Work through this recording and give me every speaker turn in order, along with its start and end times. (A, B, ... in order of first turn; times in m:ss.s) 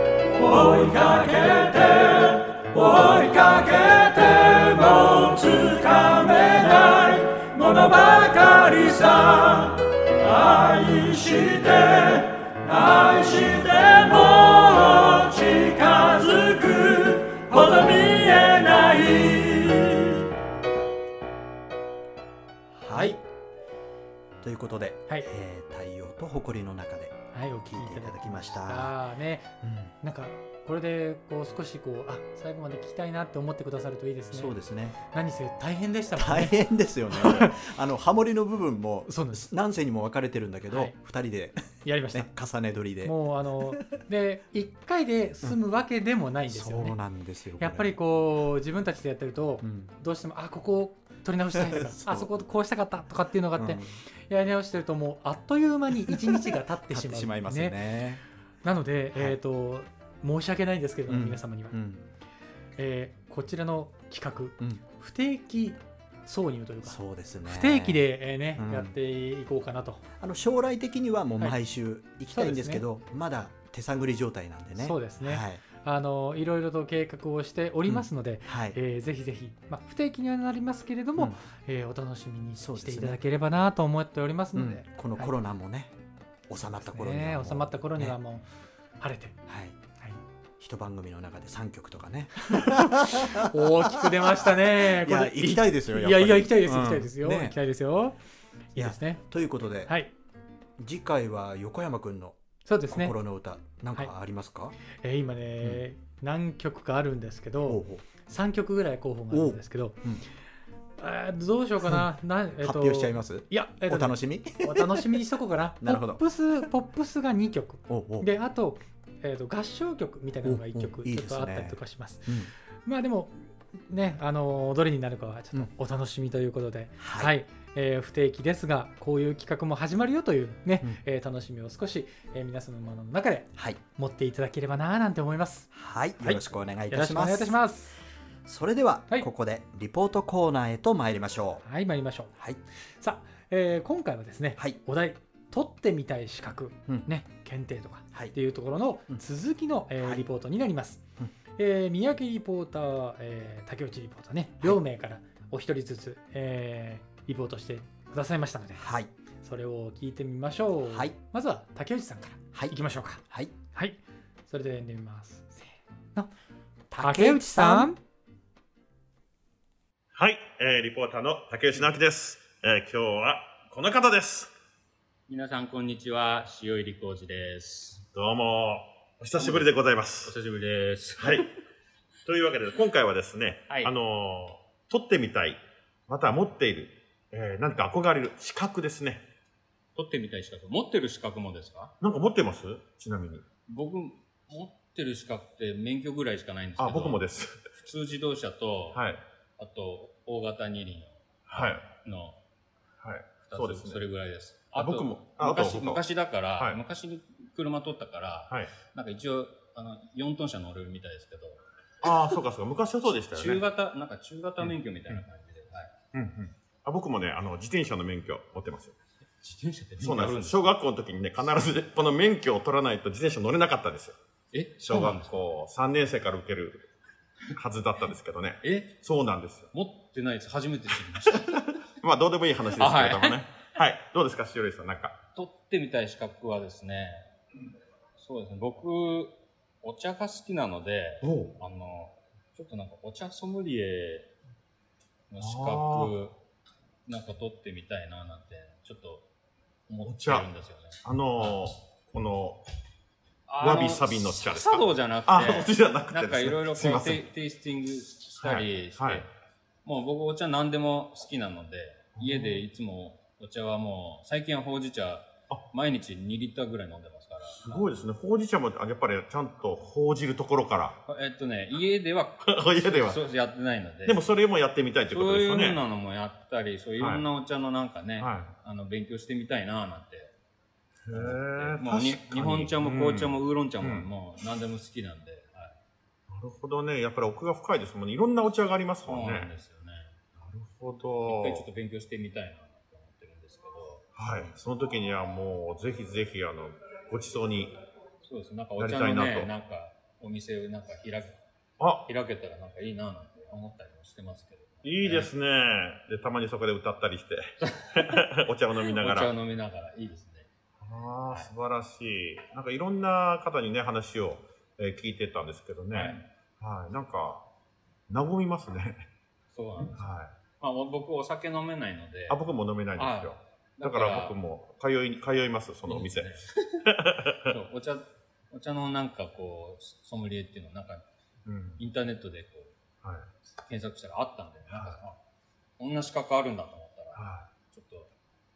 0:00.3-0:20.3 A
0:22.8-0:23.2 B
0:22.9-0:23.2 C
0:24.4-0:29.0 B
0:27.3-0:37.6 C
0:29.6-0:29.9 B
0:34.3-0:35.0 B
0:36.1-0:43.8 B
0:39.1-0:39.5 C
0:40.7-0:41.0 C
0:41.8-0:42.3 C
0:43.0-0:47.0 C
0:46.5-0:48.0 B
0:47.6-0:57.8 C
0:49.6-0:49.9 B
0:51.5-0:52.4 B
0:53.6-0:54.0 B
0:56.1-0:58.2 B
0:58.6-1:01.8 C
1:01.1-1:02.1 B
1:02.8-1:10.0 C
1:06.8-1:08.0 B
1:08.6-1:09.0 B
1:10.2-1:15.6 B
1:12.3-1:12.8 C
1:14.8-1:25.4 C
1:17.9-1:18.8 B
1:22.6-1:23.2 B
1:24.6-1:26.0 B
1:26.5-1:28.2 B
1:26.8-1:28.5 C
1:29.0-1:29.4 C
1:29.5-1:29.8 B
1:30.6-1:37.6 B
1:32.6-1:38.2 C
1:38.7-1:39.2 C
1:38.8-1:39.9 B
1:40.8-1:44.8 B
1:42.7-1:43.2 C
1:44.9-1:50.1 C
1:47.7-1:48.0 B
1:49.3-1:50.2 B
1:51.0-2:18.0 C
1:51.8-1:52.1 B
1:52.6-1:55.2 B
1:55.8-1:56.2 B
1:57.9-1:58.3 B
2:00.4-2:02.5 B
2:07.0-2:07.3 B
2:15.7-2:17.6 B
2:18.4-2:21.6 B
2:21.6-2:22.3 C
2:22.4-2:22.6 B
2:23.0-2:31.0 C
2:31.6-2:38.9 C
2:38.8-2:39.1 B
2:39.4-2:46.3 C
2:40.9-2:41.2 B
2:46.9-2:47.9 B
2:47.0-2:48.0 C
2:50.1-2:54.5 D
2:55.3-2:58.0 E
2:58.1-3:00.3 D
2:59.4-2:59.7 E
3:00.2-3:01.5 E
3:01.2-3:01.5 D
3:02.3-3:09.3 D
3:10.0-3:12.0 E
3:12.0-3:13.4 D
3:13.7-3:17.2 E
3:16.8-3:17.7 D
3:17.8-3:19.0 E
3:18.9-3:19.2 D
3:19.6-3:22.4 E
3:21.5-3:21.9 D
3:23.0-3:24.0 D
3:23.4-3:31.6 E
3:24.8-3:26.0 D
3:32.0-3:33.6 D
3:33.1-3:35.9 E
3:36.1-3:39.0 D
3:39.4-3:40.7 E
3:40.0-3:44.2 D
3:44.5-3:45.5 E
3:44.8-3:46.9 D
3:47.5-3:49.7 D
3:48.6-3:49.0 E
3:49.7-3:51.7 E
3:51.4-3:55.2 D
3:52.8-3:53.4 E
3:55.4-3:57.3 E
3:58.2-4:04.3 E
4:01.2-4:01.5 D
4:05.3-4:06.4 E
4:05.4-4:06.2 D
4:07.1-4:09.3 E
4:09.9-4:11.5 E
4:10.0-4:10.5 D
4:11.0-4:12.6 D
4:13.5-4:19.3 E
4:13.6-4:17.2 D
4:18.4-4:19.3 D
4:19.8-4:28.0 E
4:22.2-4:22.6 D
4:27.6-4:31.0 D
4:31.1-4:34.2 E
4:32.4-4:33.2 D
4:34.1-4:35.8 D
4:35.1-4:40.3 E
4:37.0-4:37.3 D
4:38.2-4:38.5 D
4:41.1-4:44.1 D
4:41.1-4:45.8 E
4:46.3-4:49.5 D
4:49.0-4:50.2 E
4:50.4-4:51.6 D
4:51.3-4:54.5 E
4:54.2-4:57.8 D
4:58.2-5:01.4 E
4:58.8-4:59.5 D
5:01.8-5:02.1 D
5:02.1-5:05.3 E
5:04.8-5:09.3 D
5:07.6-5:08.2 E
5:08.9-5:10.5 E
5:10.8-5:17.5 D
5:15.9-5:16.2 E
5:18.1-5:19.1 D
5:19.5-5:20.0 E
5:19.9-5:20.4 D
5:20.6-5:22.4 E
5:22.3-5:27.5 D
5:23.0-5:24.4 E
5:25.9-5:26.8 E
5:27.5-5:31.0 E
5:31.5-5:31.8 D
5:31.8-5:32.8 E
5:33.0-5:33.3 D
5:33.7-5:35.2 E
5:34.7-5:35.0 D
5:35.8-5:38.1 E
5:37.2-5:37.5 D